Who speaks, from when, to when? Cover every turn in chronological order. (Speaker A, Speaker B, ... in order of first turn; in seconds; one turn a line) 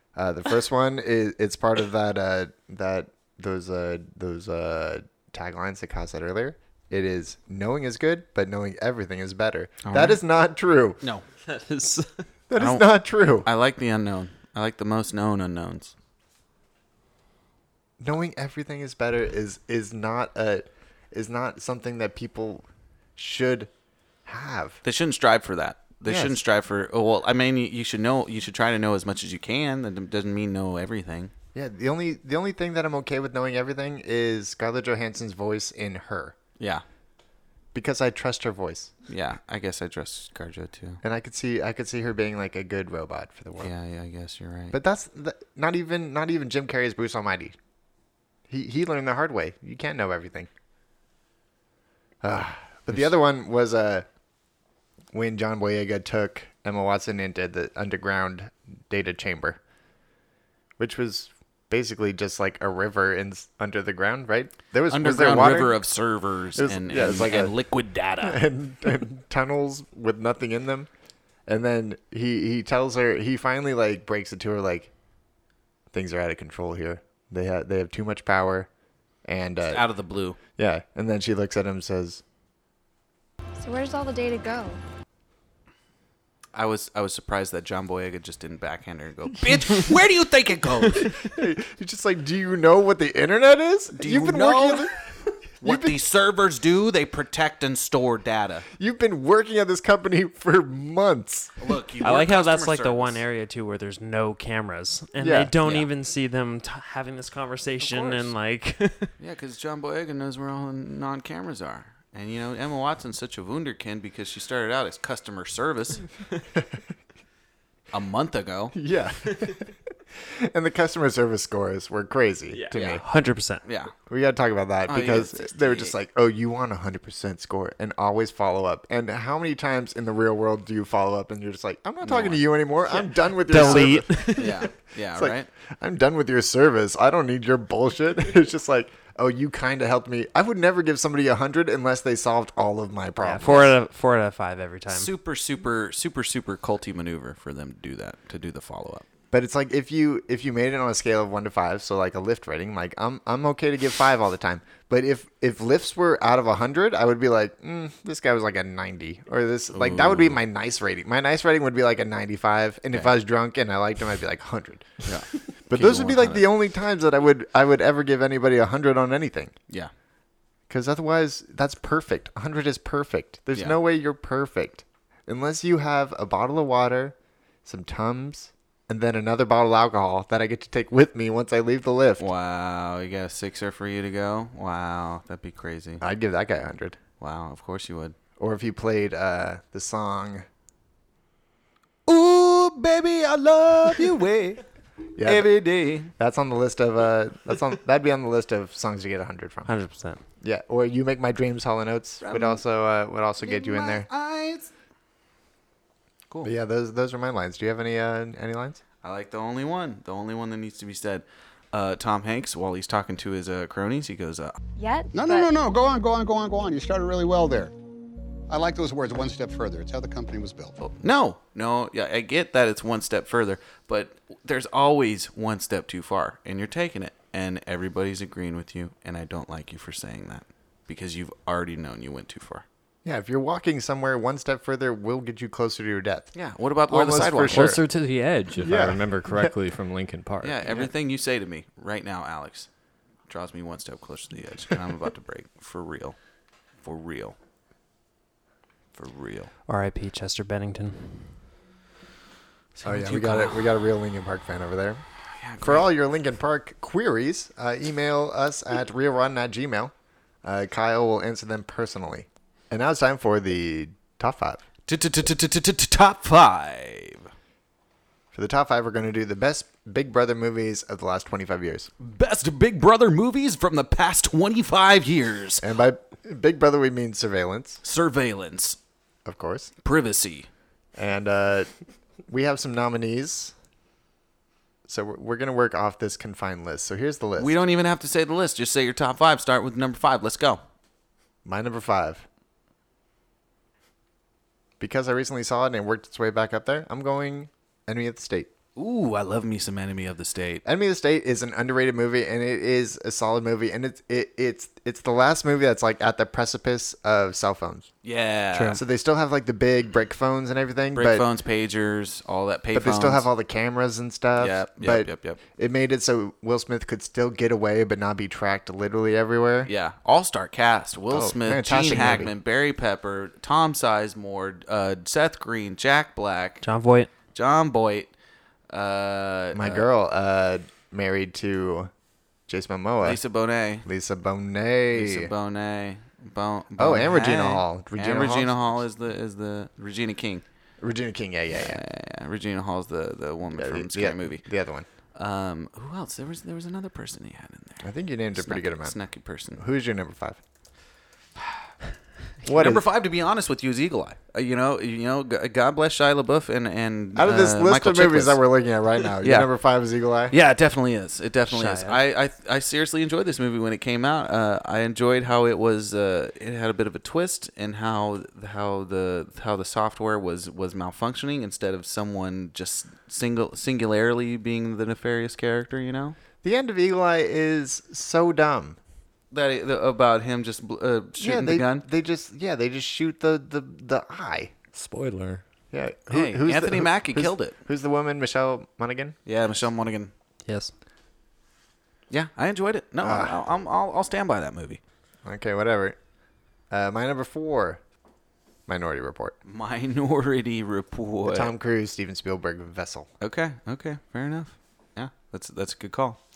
Speaker A: 0.1-11.0
Speaker B: 9.8-10.2
Speaker C: 11.4-12.2
Speaker A: 12.5-13.5
Speaker B: 12.6-12.9
Speaker B: 13.4-15.9
Speaker A: 18.0-23.7
Speaker A: 24.2-24.8
Speaker B: 24.8-31.3
Speaker A: 26.0-26.4
Speaker A: 31.5-36.4
Speaker B: 36.6-36.8
Speaker A: 37.7-38.9
Speaker B: 39.1-41.0
Speaker A: 41.0-43.7
Speaker B: 43.6-44.8
Speaker A: 44.7-47.5
Speaker A: 48.5-50.5
Speaker A: 52.2-54.0
Speaker A: 55.1-59.6
Speaker A: 60.8-65.8
Speaker B: 64.9-68.5
Speaker A: 66.5-67.5
Speaker A: 68.2-70.9
Speaker A: 71.5-74.9
Speaker A: 75.9-78.7
Speaker A: 79.2-79.8
Speaker B: 79.7-80.4
Speaker A: 80.6-82.2
Speaker D: 83.6-84.8
Speaker B: 86.5-91.3
Speaker A: 91.2-94.9
Speaker B: 93.9-94.9
Speaker A: 95.6-96.0
Speaker B: 95.6-98.7
Speaker A: 98.8-101.5
Speaker B: 101.6-103.2
Speaker C: 102.0-109.1
Speaker A: 105.2-105.5
Speaker B: 105.6-105.9
Speaker B: 107.8-108.3
Speaker B: 109.2-116.1
Speaker B: 117.9-118.7
Speaker A: 118.7-123.0
Speaker B: 122.7-123.0
Speaker C: 123.0-123.6
Speaker B: 123.6-123.9
Speaker A: 124.1-134.6
Speaker B: 124.9-125.9
Speaker B: 132.0-132.4
Speaker C: 133.4-134.7
Speaker B: 133.5-135.5
Speaker A: 135.1-143.7
Speaker C: 143.2-145.1
Speaker B: 144.9-149.0
Speaker A: 149.3-165.0
Speaker B: 159.7-160.4
Speaker B: 165.0-166.5
Speaker A: 165.7-169.5
Speaker A: 170.7-182.3
Speaker B: 182.2-186.0
Speaker A: 186.0-187.0
Speaker B: 187.2-188.2
Speaker A: 188.4-190.4
Speaker B: 192.1-194.6
Speaker A: 195.2-195.6
Speaker B: 195.2-196.1
Speaker A: 196.1-199.7
Speaker C: 199.7-200.2
Speaker A: 200.4-204.1
Speaker B: 202.2-202.6
Speaker B: 203.4-204.7
Speaker A: 206.4-208.8
Speaker B: 209.0-214.6
Speaker D: 214.8-215.5
Speaker E: 215.1-217.7
Speaker E: 218.5-220.8
Speaker B: 220.8-232.6
Speaker A: 233.0-236.3
Speaker B: 236.3-237.8
Speaker A: 236.9-237.8
Speaker F: 237.5-240.9
Speaker A: 238.6-239.5
Speaker B: 240.4-242.7
Speaker B: 243.3-246.2
Speaker B: 246.8-247.3
Speaker B: 248.9-249.5
Speaker C: 249.7-251.4
Speaker B: 252.7-253.7
Speaker A: 252.8-255.0
Speaker B: 255.4-255.9
Speaker A: 255.6-259.9
Speaker A: 260.4-264.6
Speaker B: 264.9-267.3
Speaker A: 268.3-271.9
Speaker B: 272.0-275.6
Speaker A: 275.6-277.8
Speaker B: 277.8-278.8
Speaker A: 279.2-279.7
Speaker B: 279.8-280.5
Speaker A: 280.9-281.7
Speaker A: 282.3-283.5
Speaker A: 284.9-287.6
Speaker B: 287.4-290.6
Speaker A: 291.4-292.2
Speaker A: 294.8-298.5
Speaker B: 298.8-300.6
Speaker A: 300.6-307.9
Speaker B: 308.0-308.8
Speaker A: 308.6-311.2
Speaker B: 310.9-313.2
Speaker A: 312.7-319.7
Speaker B: 314.4-315.4
Speaker B: 319.6-326.6
Speaker A: 321.1-322.3
Speaker C: 326.6-327.1
Speaker B: 327.3-328.1
Speaker B: 328.7-329.8
Speaker A: 329.5-331.9
Speaker A: 332.5-333.2
Speaker B: 333.0-333.8
Speaker A: 333.8-335.3
Speaker B: 334.9-340.4
Speaker A: 336.8-338.5
Speaker A: 340.8-341.8
Speaker B: 341.5-344.4
Speaker A: 343.5-344.9
Speaker B: 345.1-349.6
Speaker A: 347.8-349.0
Speaker A: 349.5-350.4
Speaker A: 352.4-352.8
Speaker B: 352.5-358.4
Speaker A: 357.1-360.4
Speaker B: 359.2-359.5
Speaker B: 360.3-376.1
Speaker C: 361.5-362.0
Speaker A: 376.4-378.8
Speaker B: 379.3-381.9
Speaker A: 381.2-384.5
Speaker F: 384.7-385.4
Speaker A: 385.7-389.1
Speaker B: 386.1-387.5
Speaker B: 389.2-390.1
Speaker C: 390.4-390.7
Speaker B: 392.1-394.8
Speaker A: 393.0-393.4
Speaker A: 395.2-395.9
Speaker A: 396.7-397.8
Speaker A: 398.7-399.4
Speaker B: 399.4-401.5
Speaker A: 401.2-403.1
Speaker B: 403.2-406.2